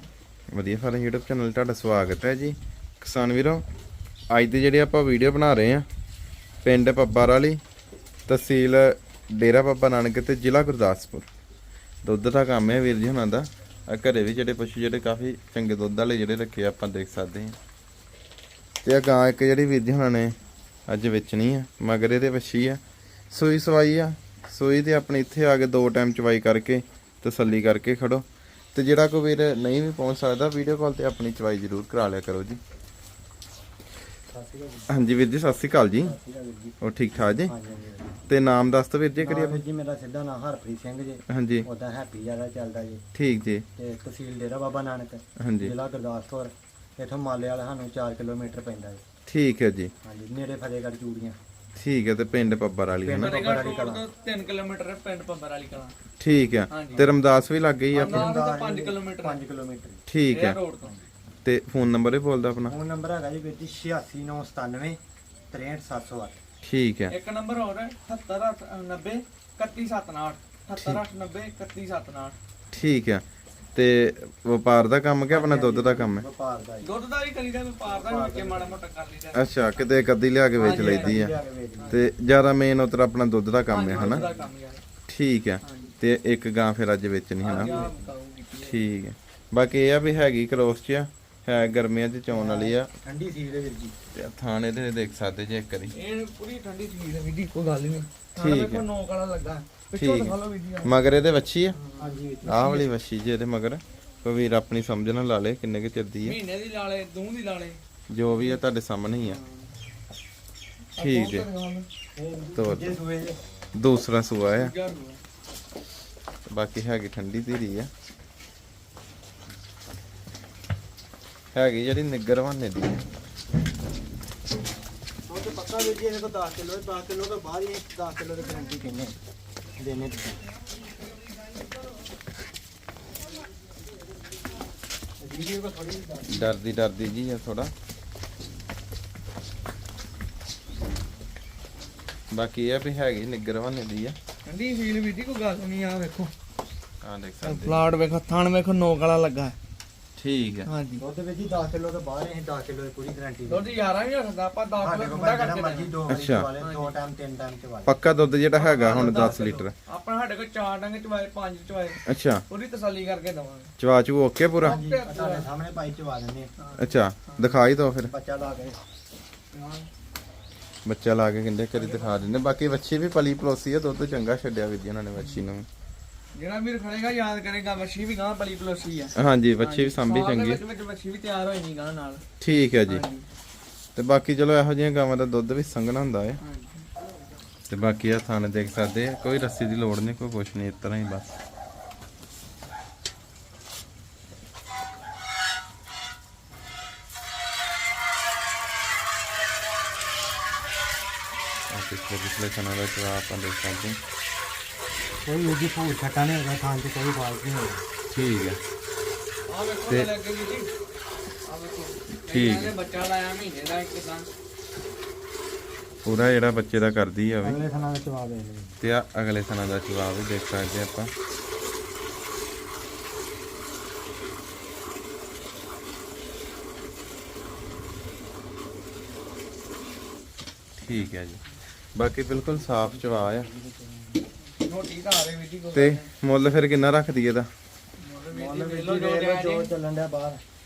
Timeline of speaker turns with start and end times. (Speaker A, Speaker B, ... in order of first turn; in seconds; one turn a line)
Speaker A: 0.5-3.6
Speaker A: 4.3-5.9
Speaker A: 6.6-7.6
Speaker A: 8.3-11.3
Speaker A: 12.0-17.6
Speaker A: 18.8-20.4
Speaker A: 20.9-32.6
Speaker B: 34.3-34.9
Speaker A: 34.9-36.1
Speaker B: 36.0-36.8
Speaker A: 36.8-37.5
Speaker B: 37.5-38.2
Speaker A: 38.3-39.6
Speaker B: 39.2-43.0
Speaker A: 41.3-41.7
Speaker A: 43.1-43.7
Speaker B: 43.8-49.0
Speaker A: 45.4-45.7
Speaker A: 49.3-49.9
Speaker B: 50.0-51.4
Speaker A: 51.8-53.4
Speaker B: 53.0-54.0
Speaker C: 53.2-55.9
Speaker A: 56.2-58.3
Speaker C: 56.7-57.1
Speaker B: 57.9-60.0
Speaker C: 57.9-59.4
Speaker A: 60.1-60.6
Speaker C: 60.3-60.9
Speaker A: 61.4-62.8
Speaker B: 62.7-65.0
Speaker B: 65.5-66.4
Speaker A: 66.6-67.1
Speaker C: 67.1-72.4
Speaker A: 70.7-71.0
Speaker A: 72.7-73.2
Speaker A: 73.8-76.2
Speaker B: 75.3-76.9
Speaker C: 76.8-81.2
Speaker B: 77.9-78.8
Speaker A: 79.3-81.3
Speaker B: 80.6-82.0
Speaker A: 81.9-84.2
Speaker C: 83.7-84.8
Speaker B: 83.9-84.5
Speaker A: 85.1-87.9
Speaker C: 85.6-86.0
Speaker C: 87.4-88.8
Speaker B: 87.5-88.0
Speaker A: 88.6-92.9
Speaker B: 92.3-94.0
Speaker A: 94.1-96.0
Speaker C: 95.9-100.9
Speaker A: 98.4-98.9
Speaker A: 100.0-101.8
Speaker C: 101.8-102.2
Speaker B: 102.0-102.9
Speaker A: 102.5-106.4
Speaker C: 106.2-107.8
Speaker A: 108.1-109.4
Speaker C: 109.2-109.7
Speaker C: 111.0-111.9
Speaker A: 111.0-111.5
Speaker B: 112.2-113.4
Speaker A: 112.6-112.9
Speaker A: 113.7-114.7
Speaker C: 114.5-115.2
Speaker A: 116.5-117.9
Speaker A: 121.5-123.0
Speaker B: 125.3-129.2
Speaker B: 129.8-130.4
Speaker B: 135.2-136.6
Speaker A: 136.3-137.7
Speaker A: 142.3-144.2
Speaker C: 144.5-146.3
Speaker A: 147.0-147.8
Speaker C: 147.4-149.6
Speaker A: 150.2-150.7
Speaker C: 150.7-151.0
Speaker B: 151.0-153.8
Speaker C: 153.5-155.9
Speaker B: 154.8-158.0
Speaker A: 156.1-156.5
Speaker C: 156.6-157.0
Speaker A: 157.9-159.7
Speaker C: 158.5-163.7
Speaker A: 162.0-162.4
Speaker A: 163.8-164.8
Speaker C: 164.6-165.5
Speaker B: 164.6-166.5
Speaker C: 166.6-167.6
Speaker A: 166.8-168.1
Speaker B: 168.1-168.8
Speaker C: 169.5-169.9
Speaker A: 170.8-175.7
Speaker C: 171.8-172.3
Speaker C: 175.2-175.4
Speaker C: 176.3-182.2
Speaker A: 179.2-180.6
Speaker A: 182.4-183.1
Speaker C: 182.8-183.3
Speaker A: 184.0-186.4
Speaker C: 186.4-186.9
Speaker A: 187.7-191.4
Speaker A: 201.7-204.0
Speaker B: 205.2-207.8
Speaker A: 208.1-208.6
Speaker C: 209.5-210.7
Speaker C: 211.5-214.3
Speaker A: 212.3-212.7
Speaker A: 216.1-217.6
Speaker B: 217.4-218.8
Speaker A: 218.8-221.1
Speaker A: 230.8-231.4
Speaker A: 231.9-233.5
Speaker B: 232.5-234.2
Speaker C: 234.6-236.1
Speaker A: 235.7-237.5
Speaker C: 238.0-239.7
Speaker B: 238.3-240.4